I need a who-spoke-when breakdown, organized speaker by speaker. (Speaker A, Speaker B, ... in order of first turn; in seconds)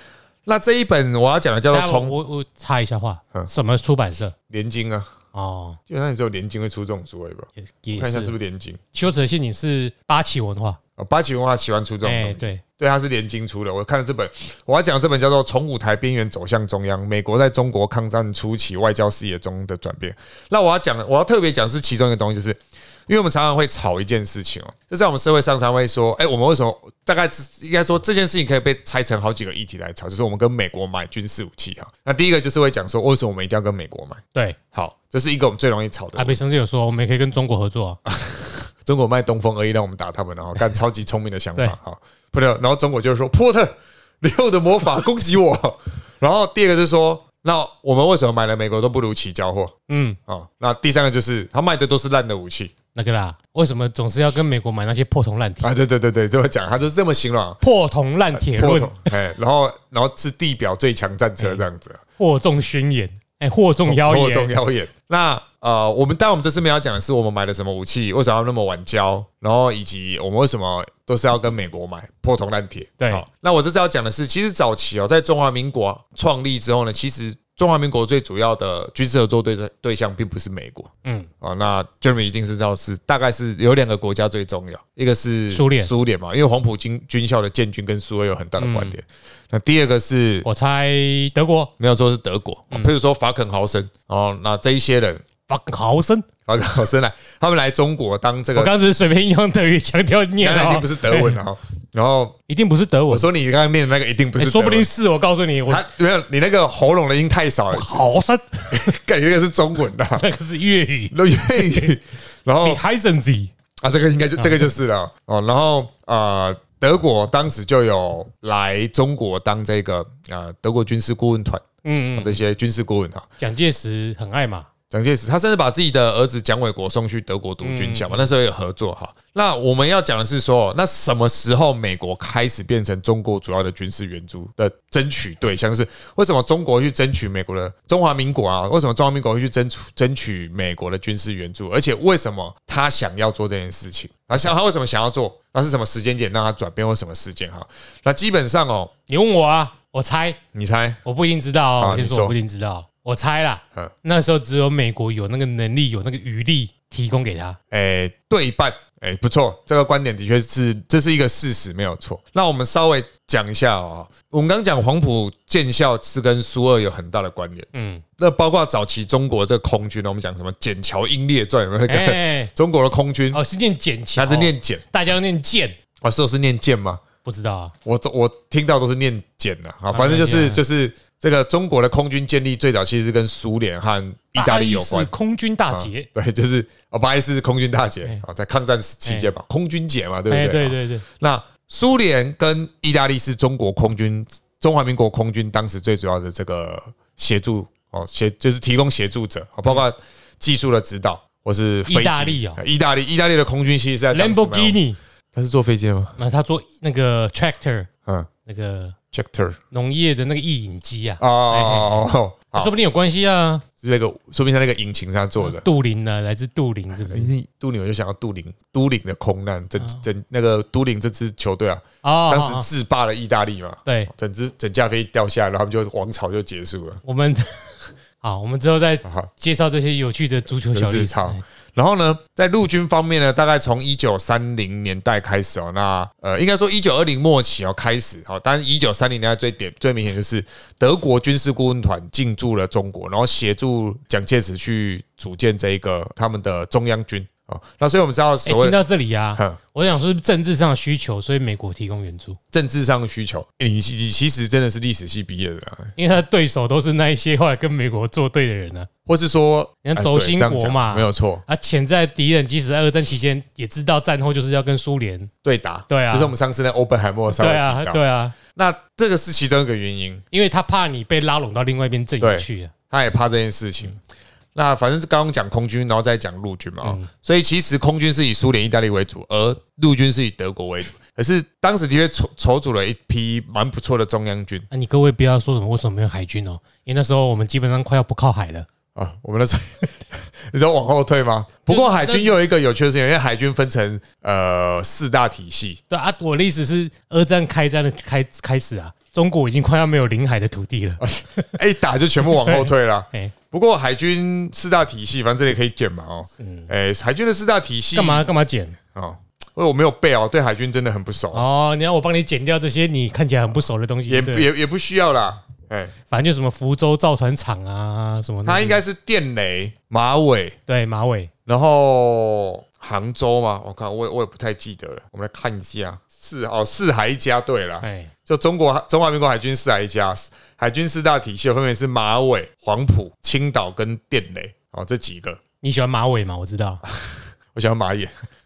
Speaker A: 0.5-2.1, 4.5-5.1, 5.9-8.8, 11.0-34.2, 34.7-36.4, 38.0-49.7, 50.3-52.7, 55.6-57.6, 58.3-62.0, 63.9-80.9, 81.4-90.5, 91.8-95.2, 96.5-98.7, 100.4-102.3, 103.1-104.9, 105.7-108.0, 108.7-110.2, 111.1-112.8, 113.8-121.6, 122.2-123.3, 124.9-148.9, 150.5-151.0, 151.8-152.3, 157.7-173.4, 174.2-174.8, 176.0-177.0, 177.8-185.1, 185.7-204.8, 205.3-206.2, 209.1-209.6, 211.2-212.7, 213.8-215.6, 217.1-227.0, 229.0-229.3, 230.7-248.8, 252.5-255.9, 259.1-261.4, 265.4-268.0, 268.5-270.2, 272.2-274.0, 274.5-284.6, 288.9-295.8, 301.0-308.3, 308.9-311.4, 314.1-315.9, 318.4-320.6, 321.5-335.4, 336.9-338.1
Speaker B: 1.7-4.3, 5.3-5.8, 7.6-8.3, 8.9-10.8, 12.0-12.6, 36.1-38.0, 49.9-50.2, 52.9-55.7, 57.6-59.1, 62.2-64.5, 73.0-73.2, 81.0-81.3, 85.5-85.9, 88.6-89.0, 90.4-91.7, 95.5-96.3, 98.5-101.4, 102.5-103.3, 104.4-105.8, 107.7-108.9, 110.1-111.9, 112.6-113.5, 114.4-114.6, 121.8-122.4, 123.4-124.7, 127.6-128.3, 149.1-150.4, 151.0-157.6, 167.7-168.0, 171.9-172.5, 173.3-175.8, 177.2-177.7, 179.9-180.6, 184.3-186.1, 189.1-189.3, 190.3-191.0, 201.9-202.6, 204.1-205.0, 206.2-207.9, 208.4-208.9, 209.7-212.0, 212.6-213.6, 215.4-217.3, 222.0-222.7, 227.0-231.4, 248.4-252.4, 255.9-258.9, 259.8-265.3, 265.9-266.3, 267.4-268.3, 270.3-272.7, 276.8-277.1, 284.7-288.7, 291.7-292.3, 295.9-301.5, 302.2-303.3, 306.4-306.7, 307.9-308.8, 311.3-314.5, 316.1-318.8, 320.7-321.3, 327.8-328.1, 335.6-336.8